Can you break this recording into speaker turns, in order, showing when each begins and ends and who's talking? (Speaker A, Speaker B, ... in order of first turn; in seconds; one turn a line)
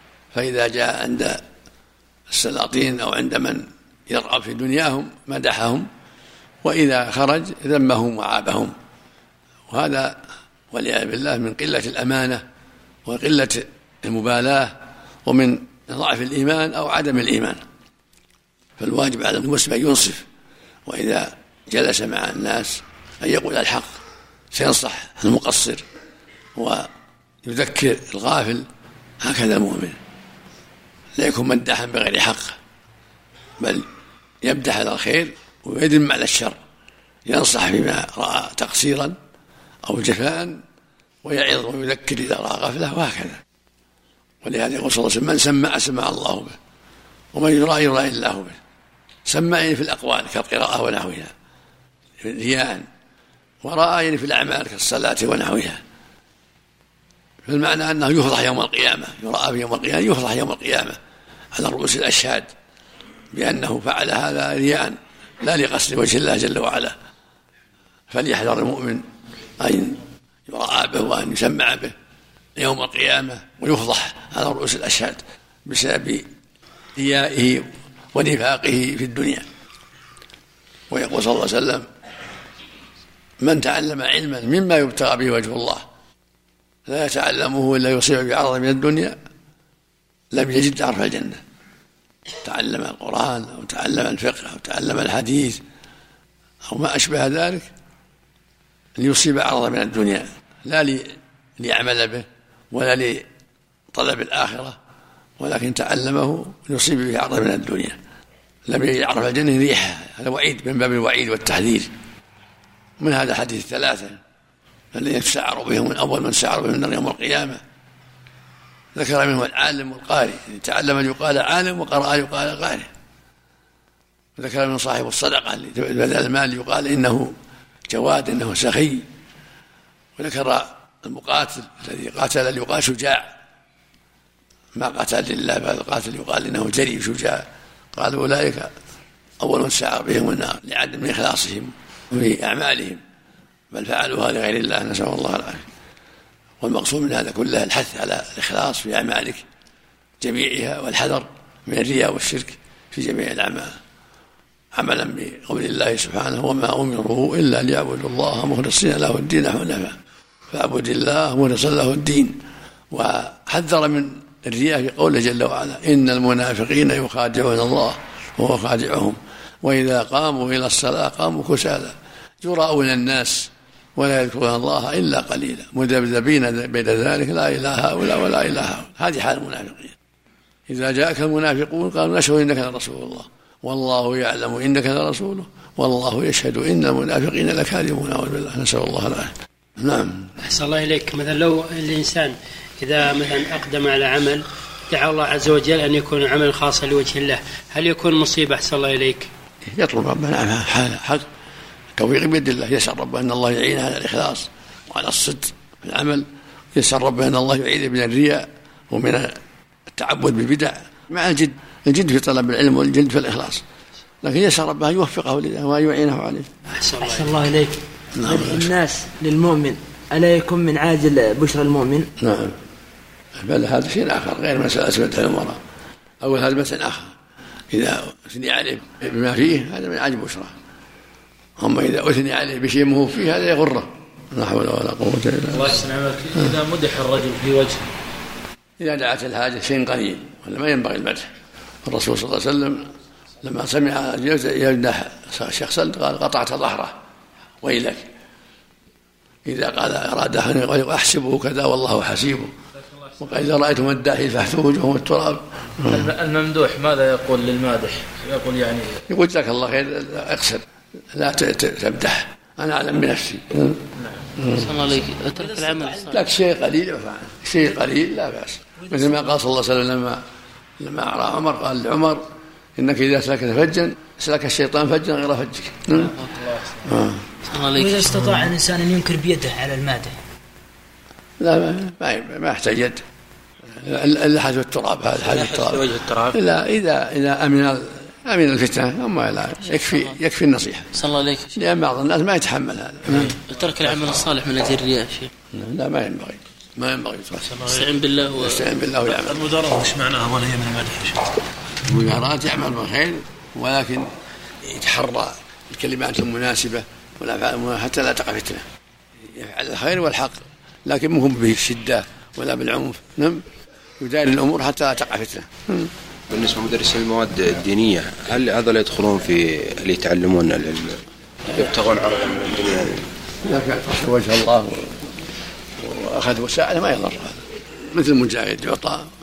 Speaker A: 0.3-1.4
Speaker A: 2.3-5.9
Speaker A: 6.6-8.7
Speaker A: 9.7-10.2
Speaker A: 10.7-12.4
Speaker A: 13.1-14.7
Speaker A: 15.2-17.6
Speaker A: 18.8-20.2
Speaker A: 20.9-23.9
Speaker A: 24.5-25.8
Speaker A: 26.6-26.9
Speaker A: 27.4-28.6
Speaker A: 29.2-30.0
Speaker A: 31.2-32.6
Speaker A: 33.6-33.9
Speaker A: 34.4-36.6
Speaker A: 37.2-39.1
Speaker A: 39.8-40.6
Speaker A: 41.2-43.4
Speaker A: 44.4-46.6
Speaker A: 47.3-48.6
Speaker A: 49.2-51.3
Speaker A: 52.2-52.9
Speaker A: 53.6-55.8
Speaker A: 57.5-61.0
Speaker A: 61.5-62.5
Speaker A: 63.3-66.9
Speaker A: 68.1-69.0
Speaker A: 69.6-71.9
Speaker A: 72.6-76.2
Speaker A: 77.0-79.4
Speaker A: 80.9-81.8
Speaker A: 83.4-85.8
Speaker A: 86.9-89.2
Speaker A: 90.3-91.4
Speaker A: 92.4-95.6
Speaker A: 96.7-97.7
Speaker A: 99.0-103.2
Speaker A: 103.9-104.8
Speaker A: 105.4-108.0
Speaker A: 108.7-111.9
Speaker A: 113.0-114.2
Speaker A: 114.9-117.6
Speaker A: 118.9-122.9
Speaker A: 124.4-127.3
Speaker A: 127.9-129.0
Speaker A: 130.2-133.3
Speaker A: 134.8-138.7
Speaker A: 139.4-143.0
Speaker A: 143.7-145.7
Speaker A: 146.6-149.4
Speaker A: 150.2-153.7
Speaker A: 154.7-159.9
Speaker A: 160.5-162.4
Speaker A: 162.9-179.9
Speaker A: 180.7-190.3
Speaker B: 190.4-199.3
Speaker A: 199.7-201.2
Speaker A: 201.9-209.3
Speaker A: 209.9-213.6
Speaker A: 214.2-216.5
Speaker B: 216.7-217.8
Speaker C: 217.1-217.5
Speaker A: 218.1-218.7
Speaker C: 218.2-222.1
Speaker A: 222.2-222.6
Speaker A: 223.4-225.6
Speaker A: 226.2-227.1
Speaker A: 227.7-230.5
Speaker A: 231.6-235.8
Speaker D: 235.5-237.9
Speaker A: 238.8-241.3
Speaker A: 241.8-242.8
Speaker A: 243.4-246.9
Speaker A: 247.6-248.1
Speaker A: 249.4-252.5
Speaker A: 253.2-256.1
Speaker D: 255.8-259.0
Speaker A: 259.1-263.8
Speaker A: 264.4-264.7
Speaker E: 264.5-266.2
Speaker A: 266.1-270.2
Speaker A: 270.8-272.2
Speaker A: 272.8-276.1
Speaker E: 276.0-276.5
Speaker D: 276.6-276.9
Speaker A: 276.8-277.2
Speaker E: 277.5-278.5
Speaker C: 277.8-279.5
Speaker A: 281.4-283.0
Speaker A: 283.7-290.9
Speaker D: 285.4-286.1
Speaker E: 289.7-290.1
Speaker E: 290.9-291.6
Speaker A: 291.5-293.4
Speaker E: 293.1-295.3
Speaker A: 295.5-297.7
Speaker E: 297.6-298.6
Speaker A: 298.3-299.5
Speaker D: 299.2-301.3
Speaker A: 301.8-304.1
Speaker A: 304.6-308.6
Speaker A: 309.3-313.4
Speaker A: 314.0-315.9
Speaker F: 316.3-321.0
Speaker F: 321.5-323.1
Speaker A: 323.4-325.0
Speaker A: 325.8-329.1